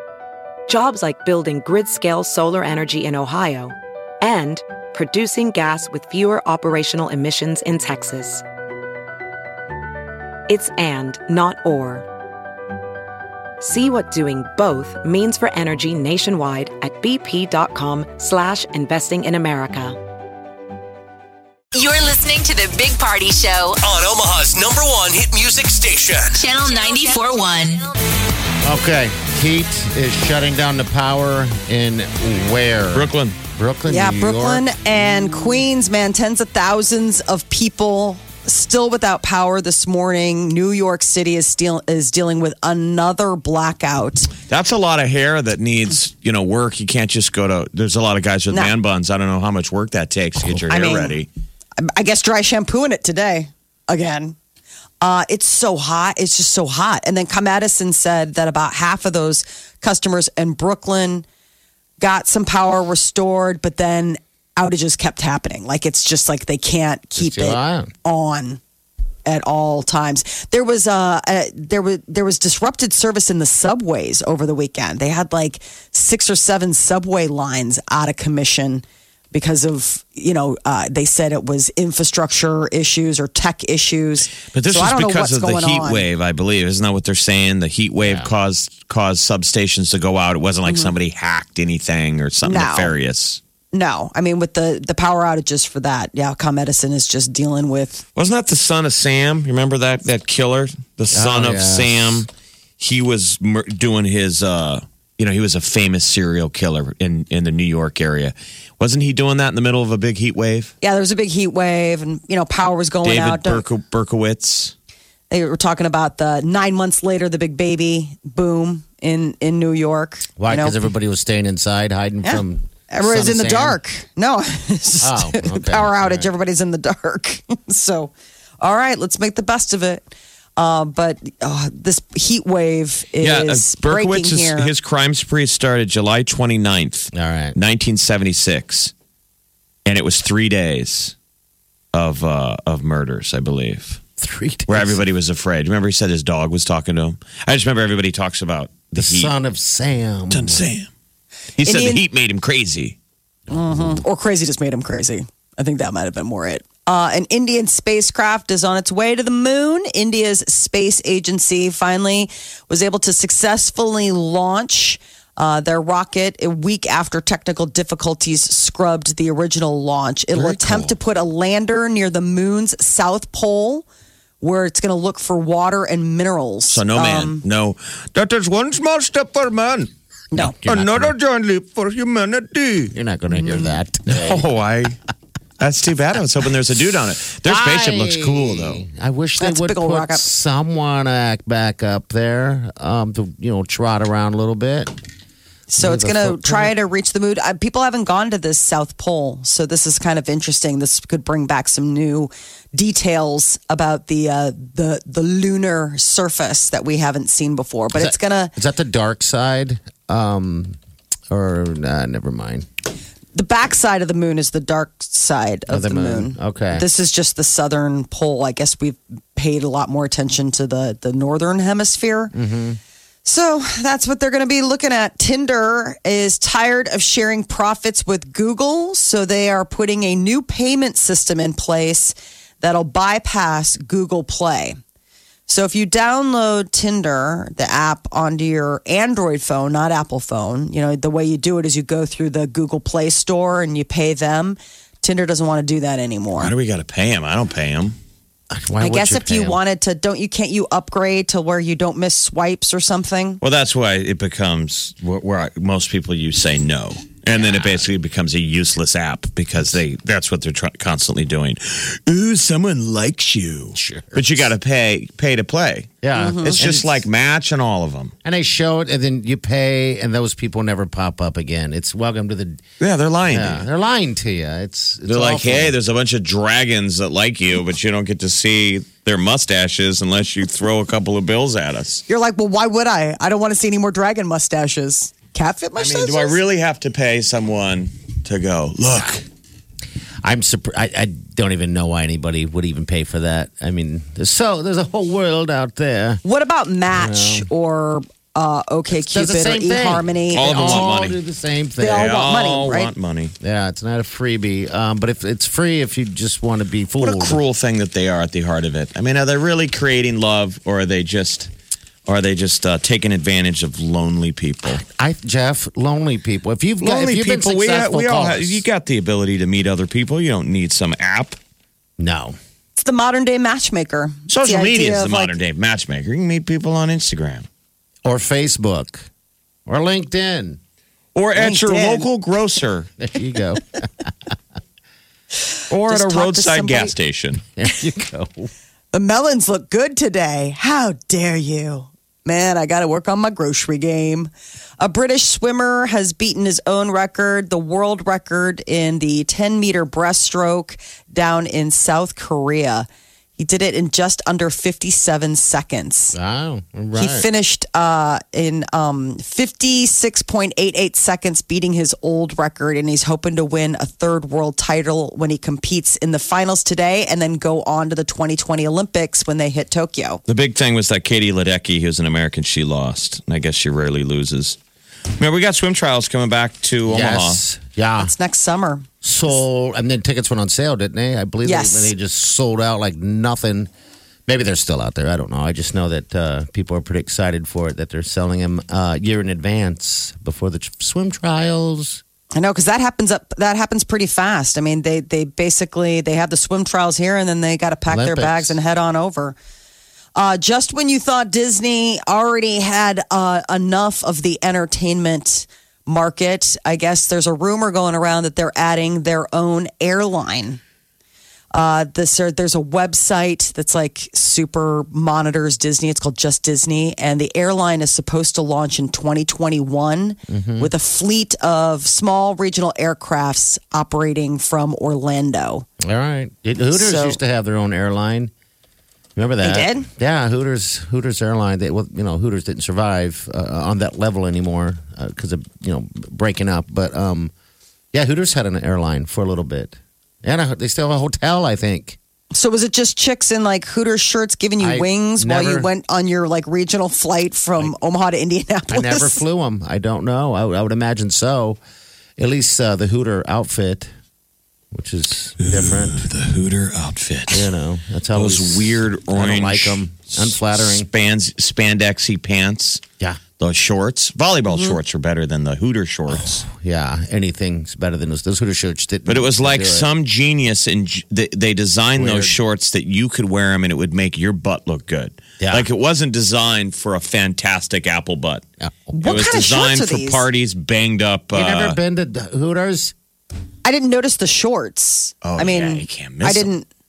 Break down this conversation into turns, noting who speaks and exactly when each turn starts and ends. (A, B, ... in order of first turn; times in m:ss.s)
0:00.7-0:08.4 A
0:10.5-0:12.1 A
0:13.6-0:20.0 A
0:21.7-0:23.8 B
0:23.8-0:26.4 C
0:26.4-0:27.9 B
0:28.6-0:34.7 D
0:32.9-0:33.4 E
0:33.9-0:44.3 F
0:44.5-0:51.3 E
0:50.7-0:51.2 F
0:51.8-0:54.4 F
0:55.0-1:01.3 F
1:02.0-1:08.6 F
1:07.2-1:07.9 D
1:09.2-1:26.1 F
1:24.3-1:33.4 E
1:28.0-1:28.3 D
1:30.7-1:30.9 F
1:32.4-1:33.0 F
1:33.7-1:38.1 F
1:38.2-1:42.3 E
1:41.1-1:42.2 D
1:42.8-1:50.7 E
1:50.8-1:53.6 F
1:53.0-1:54.8 E
1:55.3-2:00.8 F
2:00.4-2:03.8 D
2:02.2-2:14.7 F
2:05.0-2:06.3 D
2:13.2-2:18.9 E
2:17.1-2:17.6 D
2:19.9-2:21.2 E
2:21.9-2:24.0 E
2:24.2-2:25.0 D
2:24.7-2:29.3 E
2:29.0-2:30.7 D
2:30.3-2:30.9 E
2:31.6-2:33.0 E
2:31.6-2:32.0 F
2:33.5-2:53.9 F
2:50.3-2:50.9 E
2:54.4-2:57.4 F
2:56.7-3:02.9 E
3:00.3-3:00.6 F
3:00.4-3:01.1 D
3:02.9-3:04.5 D
3:04.1-3:05.0 E
3:05.6-3:08.8 E
3:07.4-3:15.0 D
3:09.4-3:10.3 F
3:15.7-3:28.5 F
3:15.8-3:16.7 D
3:27.9-3:30.8 D
3:31.3-3:32.7 D
3:33.3-3:42.3 F
3:35.7-3:36.8 D
3:42.3-3:42.8 D
3:43.2-3:54.8 F
3:55.5-4:06.5 F
4:06.4-4:08.0 E
4:08.5-4:09.6 D
4:08.8-4:13.4 F
4:13.4-4:28.1 E
4:23.8-4:24.5 D
4:26.0-4:27.0 D
4:26.2-4:26.6 F
4:28.2-4:32.6 D
4:32.8-4:33.6 E
4:33.3-4:35.8 D
4:35.1-4:42.0 E
4:42.1-4:46.4 F
4:45.8-4:49.2 E
4:50.2-4:56.2 D
4:56.2-5:00.5 F
4:56.9-4:57.5 D
4:58.9-5:02.1 D
5:00.3-5:01.2 E
5:01.8-5:02.9 F
5:01.9-5:03.4 E
5:03.4-5:07.4 D
5:07.0-5:11.5 E
5:12.1-5:14.8 E
5:14.7-5:18.6 D
5:16.8-5:21.4 E
5:22.0-5:22.4 D
5:22.8-5:25.3 F
5:24.3-5:27.5 E
5:28.0-5:29.0 D
5:29.7-5:30.6 D
5:31.2-5:32.9 E
5:31.4-5:32.1 F
5:33.0-5:34.1 D
5:35.7-5:37.4 E
5:35.9-5:36.9 F
5:37.6-5:38.5 D
5:38.9-5:56.2 F
5:56.1-5:57.3 D
5:57.0-6:10.2 F
6:10.3-6:14.6 E
6:15.2-6:17.4 E
6:16.9-6:18.1 D
6:18.0-6:18.9 F
6:19.0-6:23.7 D
6:21.4-6:21.9 F
6:24.3-6:32.0 D
6:32.4-6:39.4 F
6:37.9-6:38.6 D
6:40.2-6:50.6 F
6:51.5-7:05.7 F
7:00.3-7:00.7 D
7:05.8-7:08.3 D
7:06.7-7:07.2 F
7:09.2-7:17.3 D
7:09.4-7:09.9 F
7:17.9-7:22.0 D
7:22.3-7:29.2 F
7:24.6-7:25.7 D
7:28.7-7:31.6 D
7:32.2-7:33.9 D
7:34.7-7:36.0 D
7:35.4-7:37.5 E
7:37.3-7:40.9 D
7:38.1-7:42.8 E
7:43.4-7:46.4 E
7:46.1-7:49.9 D
7:49.1-7:58.4 E
7:52.0-7:52.4 D
7:55.4-7:55.7 D
7:58.9-8:00.2 F
7:59.0-8:01.8 E
8:01.3-8:02.9 D
8:03.6-8:06.7 F
8:05.2-8:06.5 E